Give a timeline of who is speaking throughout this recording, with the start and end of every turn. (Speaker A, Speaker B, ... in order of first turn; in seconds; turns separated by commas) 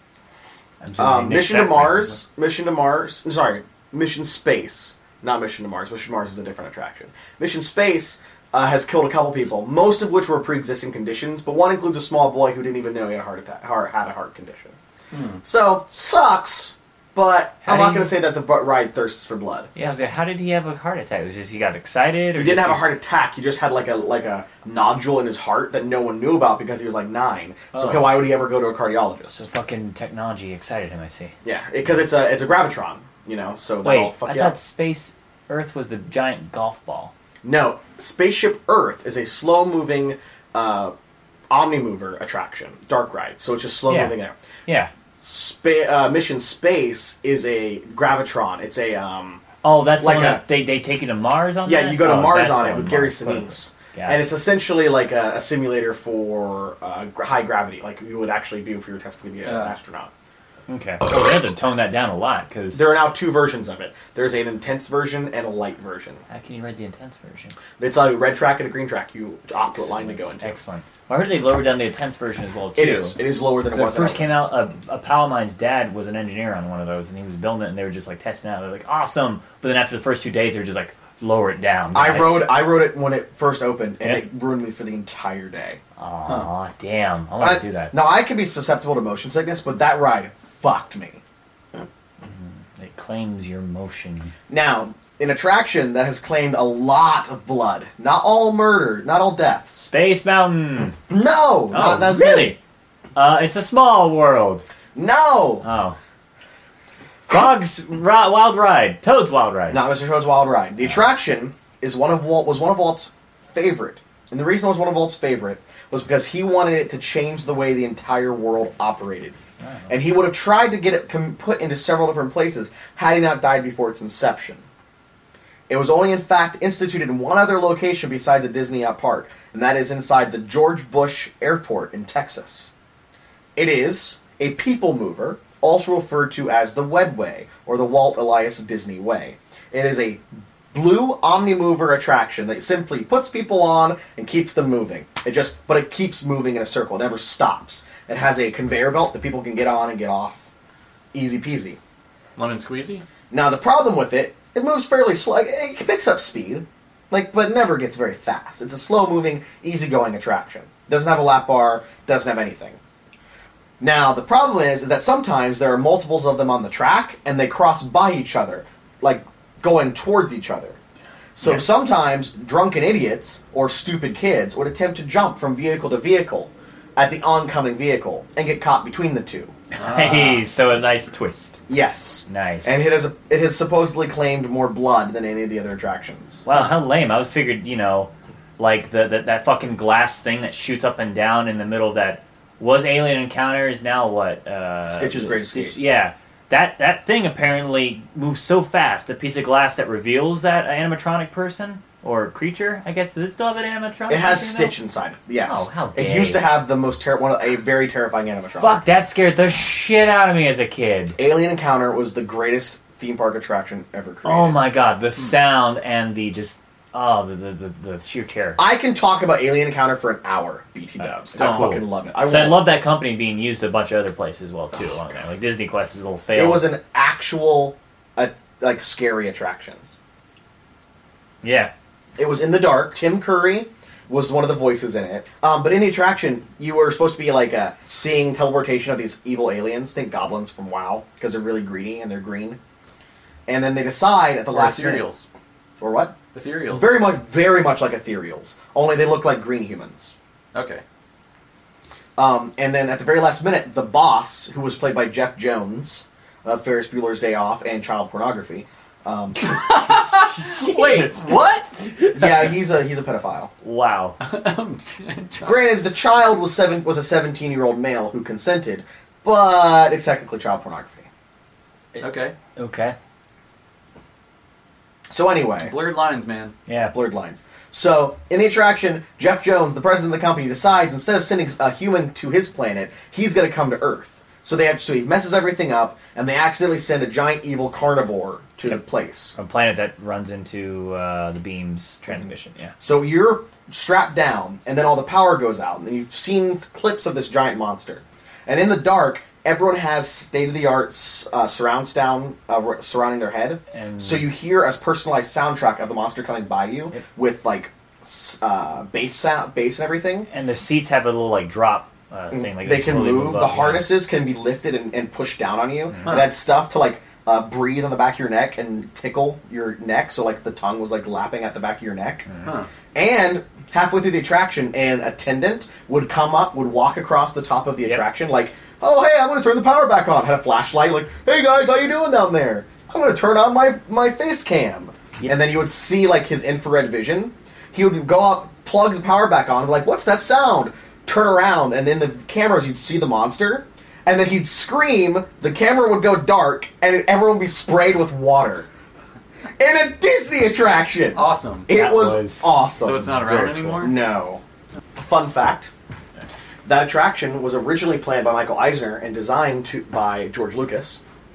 Speaker A: 0.8-2.2, Speaker B: 1.0-14.8, Speaker C: 15.1-15.4, Speaker B: 15.4-19.7, Speaker A: 17.6-18.1, Speaker A: 19.8-22.9, Speaker B: 22.4-29.4, Speaker A: 27.7-28.2, Speaker A: 29.3-31.4, Speaker B: 31.4-34.5, Speaker A: 33.8-37.1, Speaker B: 37.4-40.9, Speaker B: 41.5-44.4, Speaker A: 43.9-44.2, Speaker B: 45.2-49.4, Speaker A: 49.6-54.3, Speaker B: 50.0-50.5, Speaker B: 51.6-60.1, Speaker C: 59.4-59.8, Speaker A: 60.7-62.8, Speaker B: 62.7-66.2, Speaker A: 66.3-67.6, Speaker B: 67.8-70.6, Speaker A: 69.8-82.5, Speaker B: 72.8-74.4, Speaker B: 81.9-85.8, Speaker A: 84.0-84.3, Speaker A: 86.0-88.0, Speaker B: 87.4-91.2, Speaker A: 92.2-94.3, Speaker B: 94.5-99.9, Speaker A: 99.9-101.0, Speaker B: 101.1-102.6, Speaker A: 101.7-102.6, Speaker A: 103.2-104.7, Speaker B: 105.0-105.7, Speaker A: 105.6-106.0, Speaker A: 107.3-109.8, Speaker B: 109.7-119.4, Speaker A: 119.6-120.0, Speaker B: 119.9-124.7, Speaker B: 125.7-132.7, Speaker B: 133.6-150.5, Speaker B: 151.1-151.8, Speaker C: 152.4-153.1, Speaker B: 153.3-162.8, Speaker B: 163.8-170.8, Speaker B: 171.4-179.5, Speaker C: 179.8-180.4, Speaker A: 179.8-181.6, Speaker B: 181.7-186.4, Speaker A: 182.3-182.8, Speaker A: 186.5-204.8, Speaker B: 194.9-195.8, Speaker B: 204.1-208.8, Speaker A: 205.4-206.5, Speaker A: 208.6-211.2, Speaker B: 211.2-214.6, Speaker A: 214.2-218.6, Speaker B: 218.6-222.7, Speaker A: 221.3-226.7, Speaker C: 221.4-221.8, Speaker B: 226.3-229.8, Speaker A: 231.4-231.7, Speaker B: 232.2-242.6, Speaker B: 243.5-245.1, Speaker C: 244.5-245.2, Speaker B: 245.8-246.2, Speaker C: 246.3-247.1, Speaker B: 246.7-250.2, Speaker C: 250.5-250.8, Speaker B: 252.2-259.6, Speaker C: 259.4-261.9, Speaker A: 260.2-261.4, Speaker A: 261.9-262.5, Speaker B: 262.1-263.5, Speaker A: 263.6-264.2, Speaker C: 264.2-265.6, Speaker B: 265.4-271.1, Speaker C: 272.0-272.4, Speaker A: 272.6-273.0, Speaker B: 275.1-275.8, Speaker C: 275.6-276.6, Speaker A: 276.7-276.9, Speaker B: 276.9-289.4, Speaker A: 289.4-292.7, Speaker B: 292.8-310.3, Speaker A: 303.7-304.3, Speaker A: 310.3-313.9, Speaker B: 312.3-322.3, Speaker B: 322.9-348.7, Speaker B: 349.6-353.0, Speaker C: 351.1-351.7, Speaker A: 351.7-353.9, Speaker C: 352.8-354.0, Speaker B: 353.8-354.4, Speaker B: 354.9-355.7, Speaker B: 356.6-361.0